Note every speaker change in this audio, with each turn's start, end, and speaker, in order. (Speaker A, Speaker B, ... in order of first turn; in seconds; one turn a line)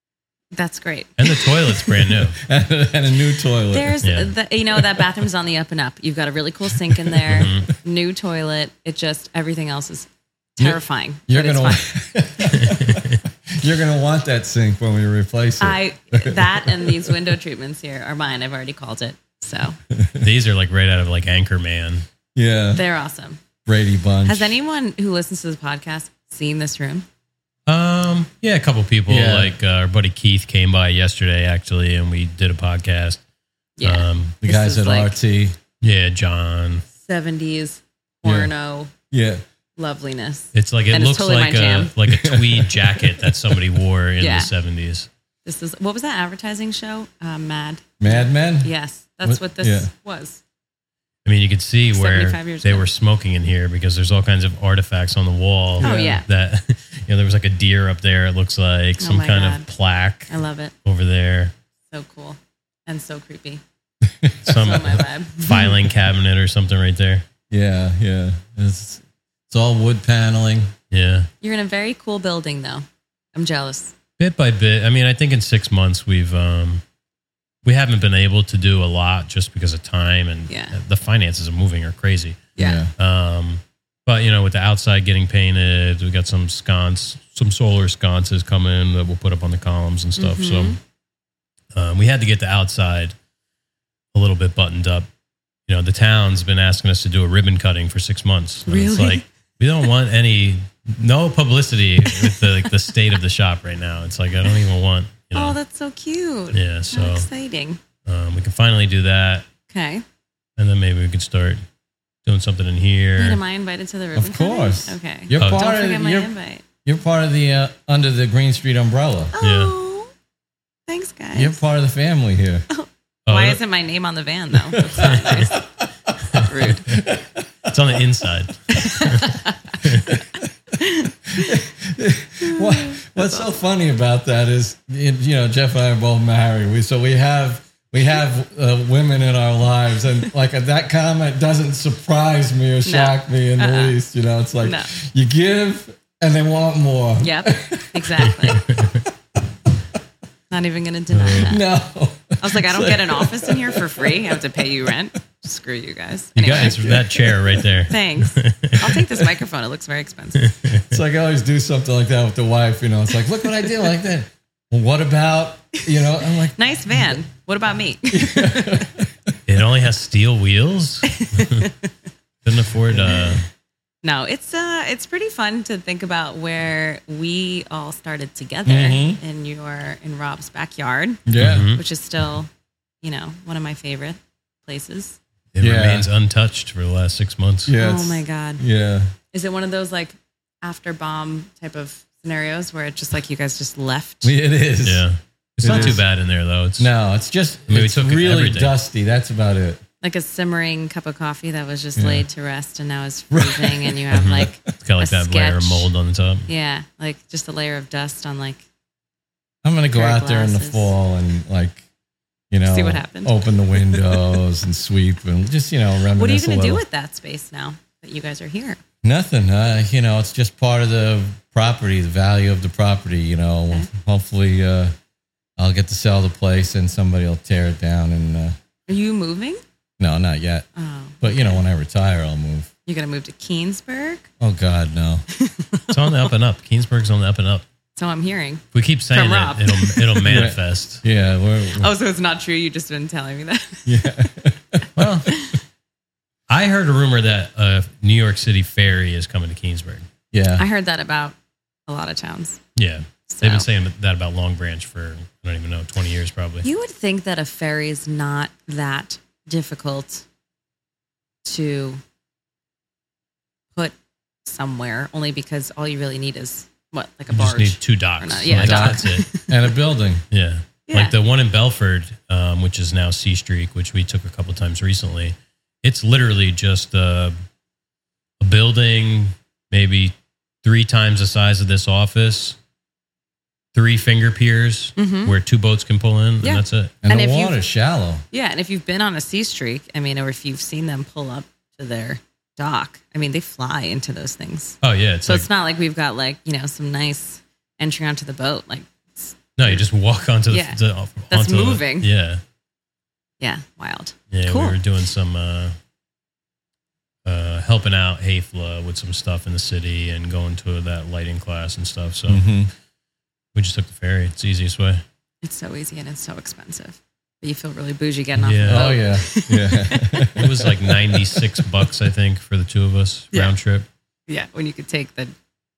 Speaker A: 0.6-1.5
Speaker B: 1.2-2.4
Speaker C: 1.7-4.0
Speaker A: 3.7-11.9
Speaker B: 4.0-4.3
Speaker C: 4.8-5.0
Speaker C: 6.8-7.6
Speaker B: 7.3-7.7
Speaker C: 10.6-17.2
Speaker B: 12.5-13.2
Speaker A: 15.6-19.8
Speaker C: 19.9-20.3
Speaker B: 20.2-22.1
Speaker C: 22.4-22.8
Speaker A: 22.8-23.4
Speaker C: 23.6-24.6
Speaker A: 24.2-27.1
Speaker B: 27.7-33.2
Speaker C: 29.1-29.5
Speaker A: 33.8-35.2
Speaker B: 33.8-34.4
Speaker C: 34.4-35.6
Speaker B: 35.8-36.9
Speaker A: 37.0-38.9
Speaker C: 38.2-38.5
Speaker C: 39.1-39.4
Speaker A: 39.8-41.9
Speaker B: 40.5-45.1
Speaker C: 42.1-43.6
Speaker A: 44.2-44.5
Speaker A: 45.5-50.4
Speaker C: 48.0-48.7
Speaker C: 49.2-49.9
Speaker B: 51.2-60.3
Speaker A: 51.9-52.9
Speaker C: 55.8-56.2
Speaker A: 55.8-56.2
Speaker A: 59.0-59.7
Speaker A: 60.3-60.7
Speaker B: 60.8-61.5
Speaker A: 61.9-63.6
Speaker C: 64.0-64.5
Speaker B: 64.4-67.2
Speaker A: 64.5-65.8
Speaker C: 67.5-70.7
Speaker B: 70.9-71.3
Speaker A: 71.4-74.0
Speaker B: 74.2-76.8
Speaker B: 77.7-82.4
Speaker A: 80.5-80.8
Speaker A: 82.6-82.8
Speaker C: 82.6-82.9
Speaker B: 83.0-90.8
Speaker A: 90.2-90.8
Speaker B: 91.8-93.2
Speaker B: 94.1-95.1
Speaker B: 95.7-105.6
Speaker A: 98.7-99.3
Speaker A: 102.0-102.7
Speaker A: 105.3-107.8
Speaker B: 106.5-107.3
Speaker B: 108.1-109.5
Speaker A: 109.7-110.0
Speaker B: 110.6-111.6
Speaker B: 112.2-113.4
Speaker A: 113.2-116.6
Speaker C: 114.2-116.3
Speaker C: 116.8-119.3
Speaker A: 119.3-120.1
Speaker B: 119.4-119.7
Speaker A: 120.9-121.6
Speaker C: 121.3-122.7
Speaker A: 122.7-125.7
Speaker B: 123.3-123.6
Speaker B: 125.0-125.5
Speaker C: 125.0-127.8
Speaker B: 126.3-127.0
Speaker A: 126.3-126.9
Speaker B: 127.7-130.2
Speaker A: 128.7-129.8
Speaker C: 130.1-130.4
Speaker A: 130.7-131.7
Speaker C: 131.3-148.8
Speaker A: 132.4-133.5
Speaker A: 142.8-144.0
Speaker A: 144.6-144.9
Speaker A: 147.2-148.7
Speaker B: 148.3-149.1
Speaker A: 150.5-151.6
Speaker B: 151.1-151.5
Speaker C: 151.3-154.9
Speaker A: 152.4-157.1
Speaker B: 156.4-158.9
Speaker C: 156.5-157.7
Speaker A: 157.9-160.5
Speaker B: 160.4-161.0
Speaker C: 160.9-166.6
Speaker A: 165.8-168.9
Speaker C: 168.1-169.3
Speaker B: 169.5-171.7
Speaker A: 171.1-171.8
Speaker B: 172.4-173.4
Speaker C: 172.9-173.4
Speaker A: 174.0-182.5
Speaker C: 178.7-179.2
Speaker C: 181.3-181.7
Speaker B: 181.4-181.8
Speaker A: 183.0-185.2
Speaker B: 185.5-187.7
Speaker C: 185.6-186.1
Speaker C: 187.7-189.1
Speaker A: 187.8-188.6
Speaker A: 189.3-194.3
Speaker C: 194.2-195.1
Speaker B: 194.8-196.9
Speaker C: 195.6-196.1
Speaker A: 195.6-196.0
Speaker C: 196.8-199.8
Speaker B: 197.7-198.7
Speaker A: 200.0-205.9
Speaker C: 202.0-202.3
Speaker C: 203.3-204.5
Speaker B: 204.1-206.5
Speaker A: 206.5-208.6
Speaker C: 209.6-211.8
Speaker A: 209.9-210.9
Speaker C: 212.5-216.8
Speaker A: 212.6-214.3
Speaker A: 216.1-218.8
Speaker C: 219.0-224.9
Speaker C: 225.6-228.6
Speaker A: 228.9-229.6
Speaker C: 230.0-230.7
Speaker A: 230.8-231.6
Speaker C: 231.2-232.7
Speaker A: 232.9-234.3
Speaker C: 234.4-235.2
Speaker A: 235.3-236.3
Speaker B: 235.9-237.6
Speaker A: 238.0-240.3
Speaker B: 238.7-241.0
Speaker C: 240.2-241.9
Speaker A: 241.8-244.1
Speaker C: 243.9-244.9
Speaker B: 245.0-245.3
Speaker A: 245.3-245.6
Speaker B: 246.5-250.1
Speaker C: 250.3-250.7
Speaker A: 250.6-251.4
Speaker A: 251.9-252.6
Speaker B: 252.8-256.7
Speaker A: 253.3-253.7
Speaker A: 256.6-260.2
Speaker A: 261.4-262.0
Speaker A: 263.8-269.5
Speaker B: 267.3-269.3
Speaker C: 268.5-270.2
Speaker B: 270.3-277.4
Speaker A: 270.9-271.1
Speaker B: 278.4-282.6
Speaker B: 283.7-287.0
Speaker A: 285.0-285.3
Speaker A: 286.4-287.6
Speaker C: 287.0-288.2
Speaker A: 288.3-299.9
Speaker B: 294.8-295.5
Speaker B: 299.6-302.4
Speaker A: 300.5-300.8
Speaker A: 301.3-302.1
Speaker A: 303.4-304.8
Speaker B: 304.3-305.8
Speaker B: 307.2-312.4
Speaker C: 312.3-312.7
Speaker B: 313.5-315.0
Speaker A: 315.4-320.3
Speaker B: 318.4-318.9
Speaker C: 318.6-321.4
Speaker B: 320.4-323.9
Speaker A: 324.3-325.3